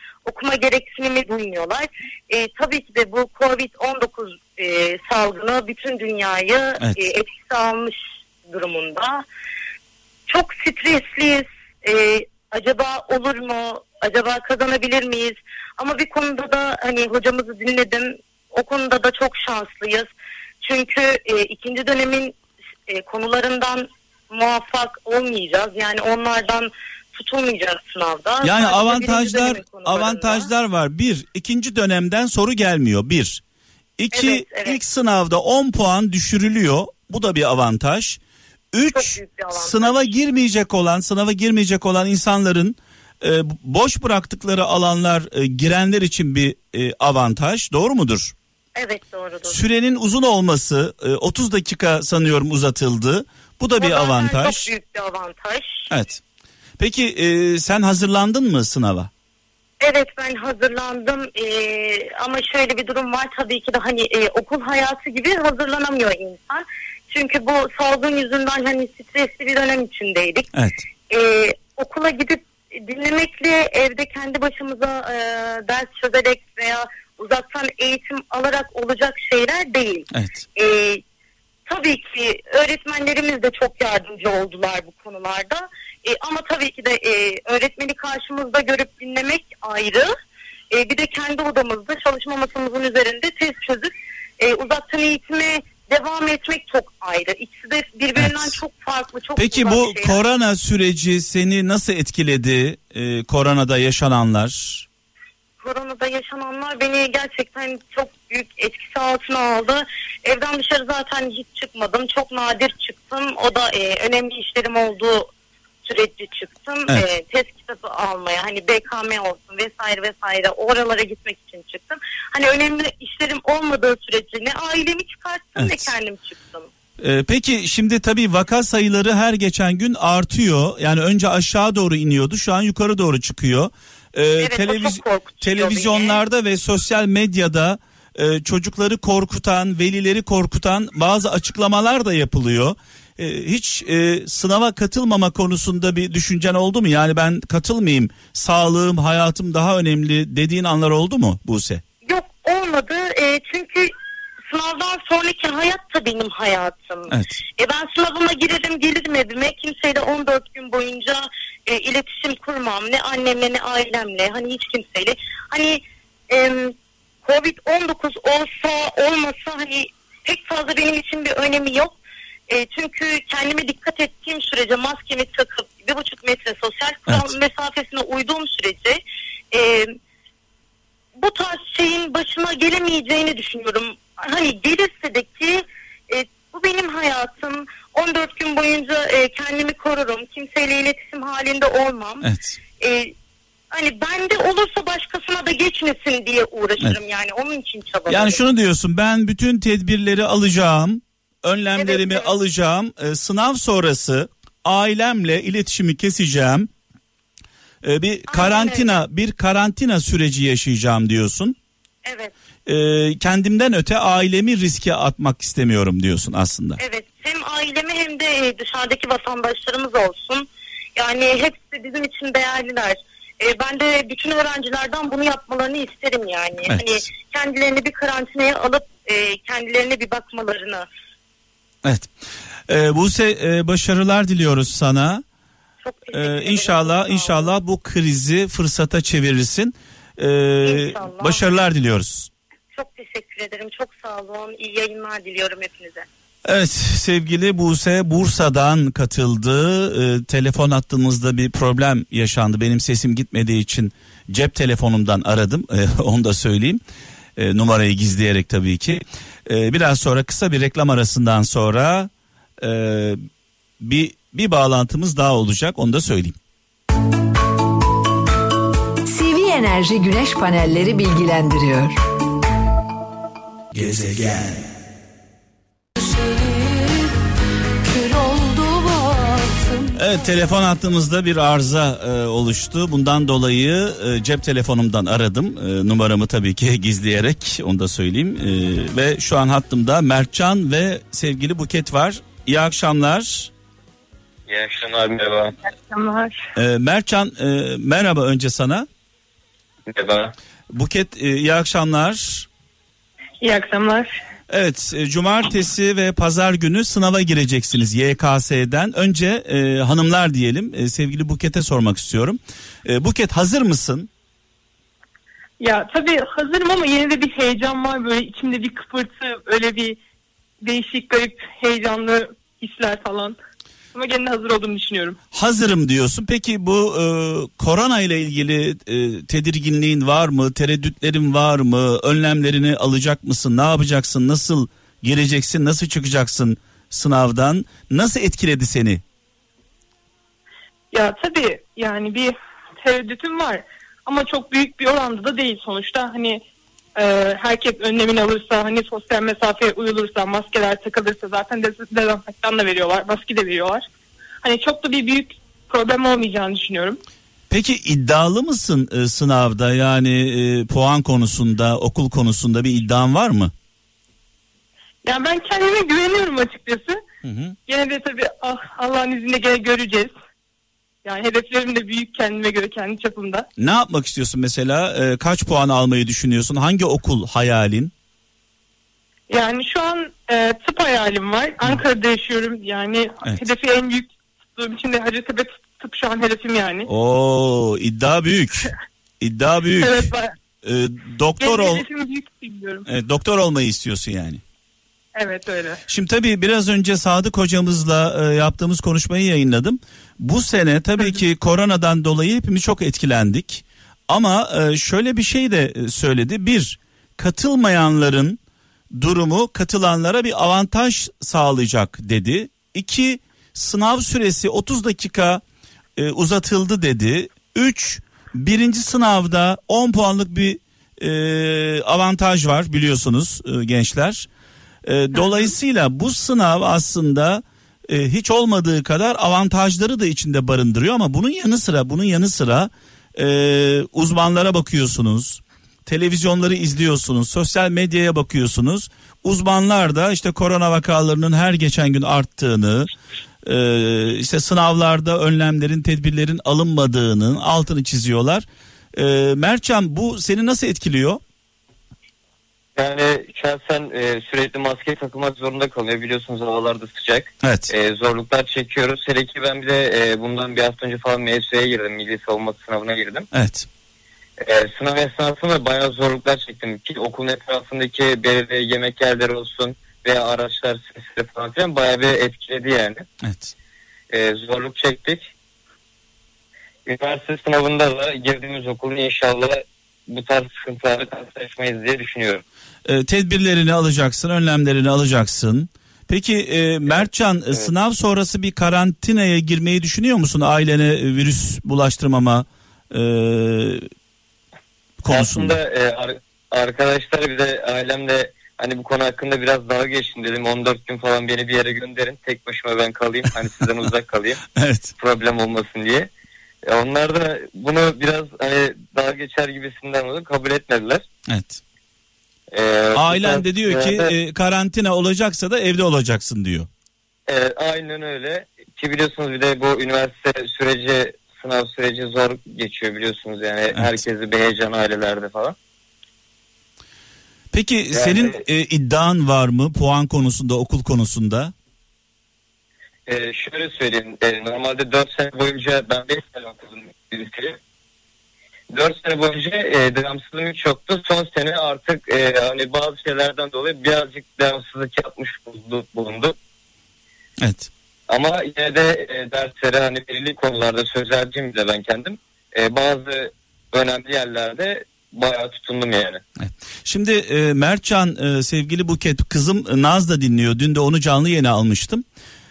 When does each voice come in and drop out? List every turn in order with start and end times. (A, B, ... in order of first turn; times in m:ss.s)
0:00.2-0:08.0 A
0:08.5-0:09.2 A
0:10.3-0:20.1 A
0:20.6-0:22.4 A
0:22.9-0:30.5 A
0:28.4-0:33.4 B
0:34.0-0:38.2 B
0:34.1-0:34.8 A
0:38.7-0:48.3 B
0:38.9-0:40.1 A
0:48.8-0:49.6 A
0:49.5-0:54.7 B
0:53.8-0:55.9 A
0:55.9-0:56.2 B
0:56.8-0:59.1 B
0:59.8-1:10.5 A
1:10.5-1:10.8 B
1:11.1-1:21.0 A
1:20.1-1:20.4 B
1:21.7-1:30.1 A
1:30.7-1:40.2 A
1:38.2-1:38.6 B
1:39.4-1:44.8 B
1:45.6-1:55.3 A
1:55.8-2:06.7 A
2:05.6-2:05.9 B
2:07.0-2:31.8 B
2:14.4-2:16.2 A
2:32.0-2:33.9 A
2:34.5-2:52.0 A
2:37.1-2:37.4 B
2:52.5-2:59.0 A
2:59.5-3:00.0 A
3:01.2-3:12.3 A
3:12.2-3:12.6 B
3:12.8-3:13.1 A
3:13.7-3:18.4 A
3:18.1-3:26.7 B
3:21.7-3:22.3 A
3:27.8-3:31.6 B
3:28.3-3:28.9 A
3:32.0-3:32.3 A
3:32.6-3:36.8 B
3:36.8-3:50.9 A
3:46.7-3:47.0 B
3:51.8-3:52.1 B
3:52.7-3:55.2 B
3:55.8-3:57.5 A
3:56.1-4:02.3 B
4:00.6-4:01.4 A
4:02.7-4:06.0 A
4:06.4-4:16.8 B
4:17.4-4:23.2 B
4:23.8-4:26.4 B
4:29.0-4:32.0 C
4:33.7-4:34.4 C
4:36.0-4:37.1 C
4:37.8-4:40.0 C
4:39.9-4:53.5 B
4:54.5-4:55.5 D
4:55.7-4:56.4 E
4:56.6-4:58.9 B
4:59.9-5:00.3 D
5:00.7-5:02.5 B
5:03.4-5:04.2 E
5:04.5-5:14.1 B
5:15.6-5:20.0 E
5:20.6-5:23.4 E
5:23.9-5:25.2 E
5:25.3-5:39.0 B
5:40.9-5:46.4 E
5:47.0-5:53.8 E
5:54.4-5:57.0 E
5:57.5-6:03.5 B
6:05.0-6:07.0 E
6:07.2-6:07.6 B
6:07.7-6:10.1 E
6:11.0-6:13.4 E
6:13.6-6:17.9 B
6:19.3-6:26.9 E
6:26.9-6:30.1 B
6:29.8-6:30.4 E
6:30.6-6:31.8 B
6:31.4-6:32.9 E
6:32.9-6:34.4 B
6:35.2-6:35.8 E
6:35.9-6:48.4 B
6:49.0-6:55.4 B
6:56.0-7:04.3 B
7:04.8-7:22.9 B
7:05.1-7:05.5 E
7:23.4-7:31.2 B
7:32.8-7:43.3 D
7:37.4-7:37.7 B
7:43.3-7:43.7 B
7:44.4-7:53.0 D
7:53.2-7:53.5 B
7:54.1-7:55.3 D
7:56.9-8:02.4 D
8:02.9-8:13.9 B
8:06.9-8:07.7 D
8:15.0-8:15.6 B
8:15.0-8:24.4 D
8:24.5-8:24.9 B
8:25.0-8:26.1 D
8:26.7-8:31.0 D
8:31.3-8:31.6 B
8:32.5-8:34.1 D
8:32.9-8:36.7 B
8:37.3-8:45.5 D
8:47.5-8:51.5 B
8:47.9-8:48.4 D
8:53.1-8:57.6 D
8:58.7-9:06.4 D
9:07.4-9:07.7 B
9:08.1-9:16.2 D
9:16.4-9:22.0 B